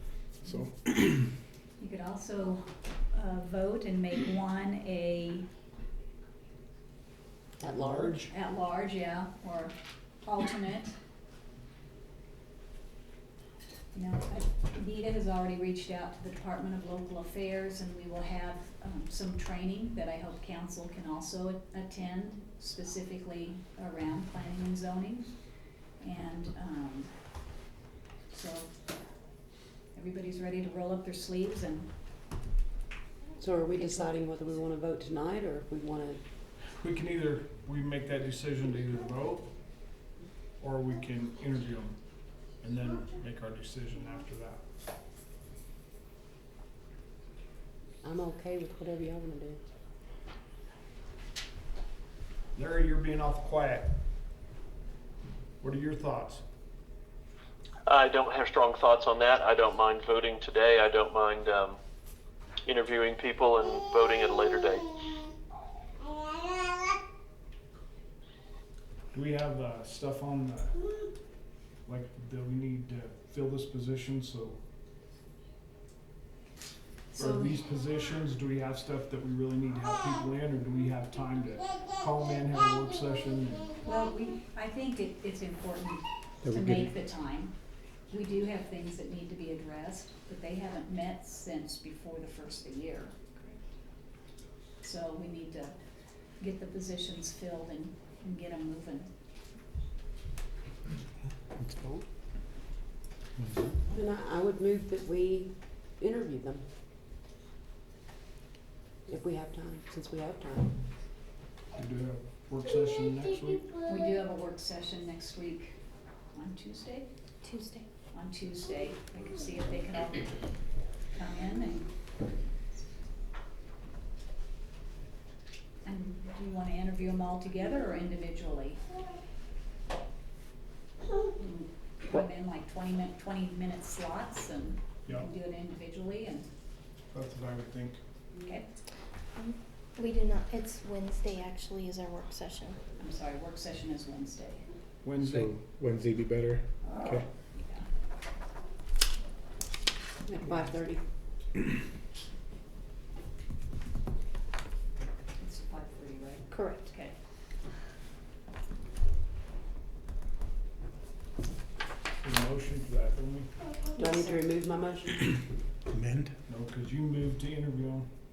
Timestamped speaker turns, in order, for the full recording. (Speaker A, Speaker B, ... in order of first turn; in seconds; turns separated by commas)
Speaker A: 0.4-1.1, Speaker B: 1.8-5.5, Speaker C: 7.6-8.3, Speaker B: 8.3-10.9, Speaker B: 13.9-25.3, Speaker B: 26.0-27.1, Speaker B: 28.3-28.7, Speaker B: 29.9-31.9, Speaker C: 33.4-36.2, Speaker D: 36.7-39.5, Speaker D: 40.6-42.0, Speaker D: 42.6-44.6, Speaker C: 48.0-49.6, Speaker D: 52.5-53.9, Speaker D: 55.6-56.4, Speaker E: 57.9-61.8, Speaker E: 62.6-64.9, Speaker D: 69.1-70.8, Speaker D: 71.8-74.6, Speaker B: 77.1-77.5, Speaker D: 77.1-83.7, Speaker B: 83.8-87.5, Speaker A: 86.4-86.9, Speaker B: 88.1-93.5, Speaker B: 94.8-95.8, Speaker B: 96.4-99.1, Speaker A: 101.5-102.0, Speaker A: 103.4-103.7, Speaker C: 103.9-106.6, Speaker C: 109.1-110.7, Speaker D: 111.7-113.7, Speaker B: 113.8-115.8, Speaker B: 116.3-117.1, Speaker F: 117.4-117.9, Speaker B: 118.1-120.4, Speaker B: 121.1-121.9, Speaker B: 125.8-128.8, Speaker B: 131.4-136.5, Speaker D: 137.1-138.0, Speaker B: 138.4-138.7, Speaker F: 139.3-142.8, Speaker B: 143.0-144.7, Speaker D: 145.0-145.6, Speaker A: 145.2-147.2, Speaker B: 147.6-147.9, Speaker C: 150.2-151.0, Speaker B: 155.4-157.1, Speaker F: 156.5-156.9, Speaker D: 162.2-163.5, Speaker C: 163.9-165.3, Speaker A: 165.9-166.3, Speaker D: 166.5-168.1